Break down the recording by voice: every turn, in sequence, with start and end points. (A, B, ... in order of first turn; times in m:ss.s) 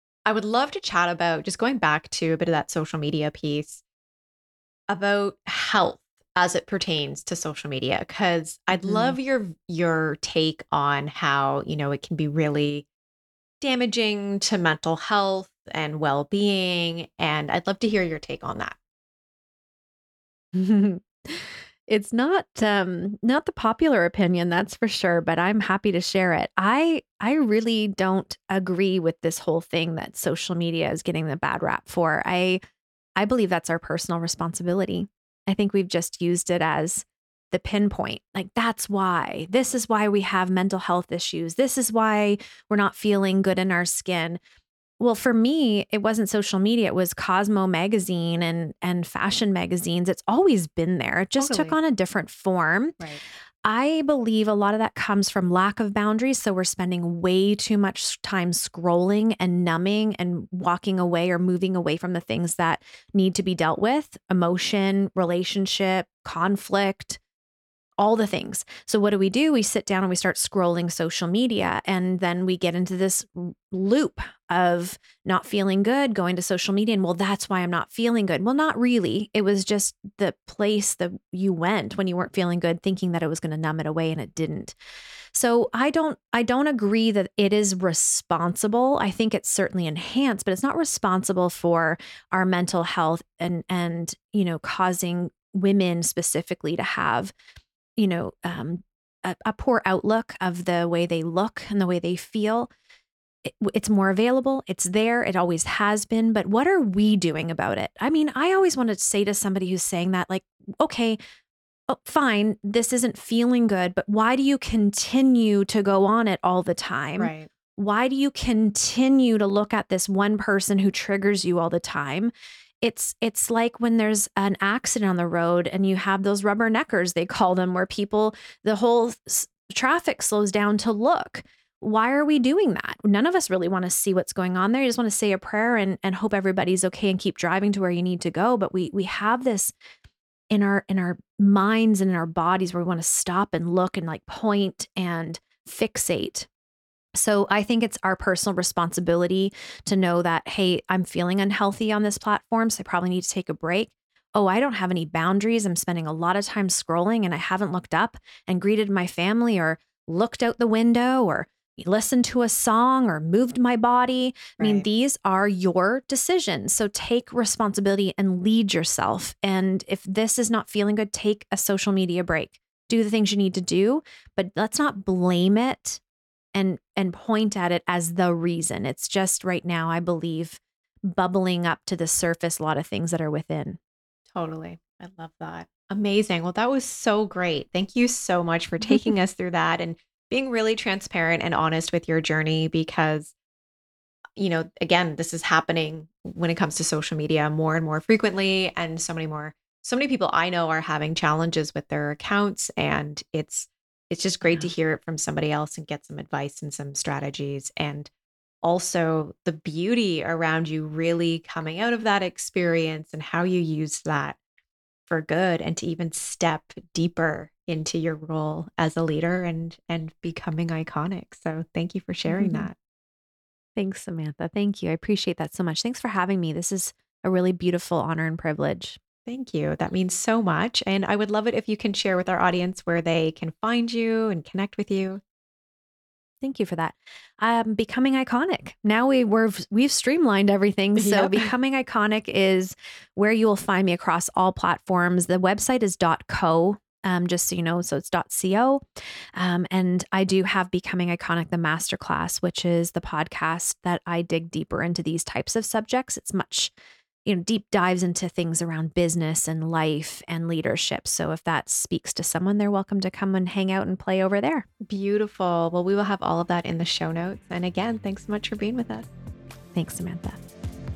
0:00.2-0:03.8 A
0:04.9-0:12.9 A
0:08.7-0:09.2 B
0:13.6-0:18.8 A
0:20.5-0:32.6 B
0:33.2-0:44.4 B
0:45.0-0:53.0 B
0:51.4-0:51.8 A
0:53.6-1:07.2 B
1:08.0-1:24.7 B
1:25.3-1:37.3 B
1:38.0-1:42.7 B
1:43.4-1:51.2 B
1:51.9-2:19.7 B
1:57.2-1:57.5 A
2:20.5-2:26.5 B
2:27.1-2:56.0 B
2:44.6-2:44.8 A
2:56.5-3:03.8 B
3:04.3-3:13.3 A
3:08.8-3:09.1 B
3:14.4-3:28.1 A
3:24.4-3:24.7 B
3:28.6-3:34.4 A
3:35.1-3:42.7 A
3:42.3-3:42.7 B
3:43.8-3:49.0 B
3:49.2-3:55.2 A
3:56.4-4:08.8 B
4:01.0-4:01.5 A
4:09.4-4:16.7 B
4:17.2-4:24.6 B
4:24.8-4:29.1 A
4:29.7-4:30.4 B